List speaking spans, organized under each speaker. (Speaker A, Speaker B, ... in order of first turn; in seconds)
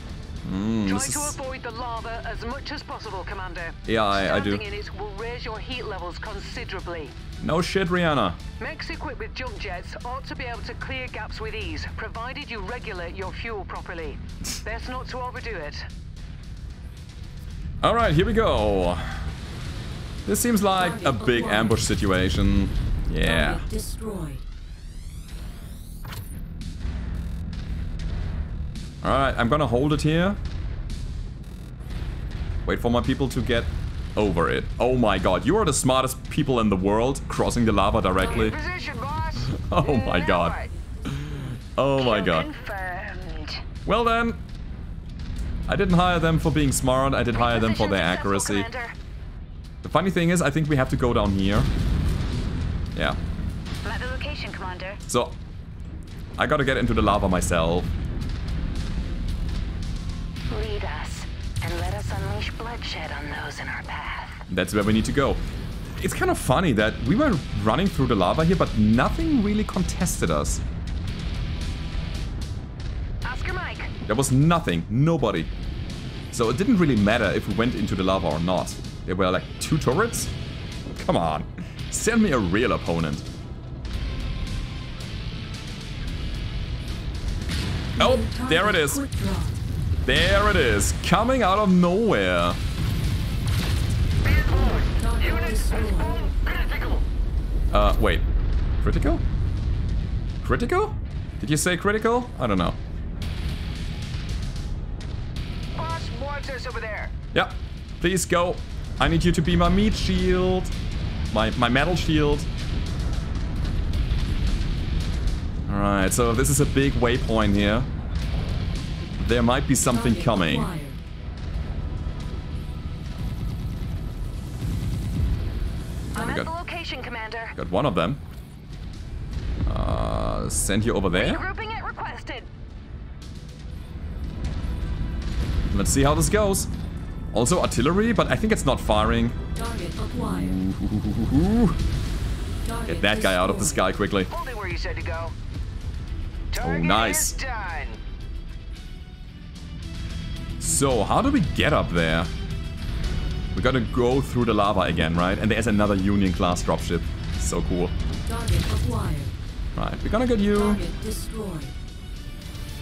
Speaker A: 0.4-1.4, 3.9-4.6, 7.4-8.4, 17.8-19.1, 20.2-23.6, 29.0-30.4, 32.6-38.6, 39.5-42.5, 43.9-44.4, 45.7-48.7, 49.8-51.7, 55.1-55.4, 56.4-57.9, 64.5-65.4, 65.9-70.6, 74.0-75.5, 76.3-80.3, 80.9-83.2, 88.0-89.0, 90.0-92.6, 97.7-98.2, 98.8-99.2, 100.4-102.8, 107.3-110.7, 111.3-112.5, 115.7-117.9, 119.2-120.7, 126.1-126.5, 127.5-128.2, 129.7-131.4, 135.7-136.7, 137.3-139.4, 140.2-141.8, 142.9-144.3, 146.6-147.3, 150.6-152.3, 153.5-157.9, 159.8-160.8
Speaker B: 0.9-7.1, 8.6-15.9
Speaker C: 20.8-21.8, 23.2-24.4, 88.0-89.6, 95.0-96.3, 119.9-120.9, 139.5-140.5, 142.7-143.7, 158.2-159.3, 160.5-161.7
Speaker D: 38.2-40.7, 105.7-107.1, 144.3-145.3, 146.5-148.0
Speaker E: 42.0-43.6, 47.3-48.9, 53.8-55.0, 60.5-64.4, 73.2-73.9, 126.1-127.5, 131.1-132.5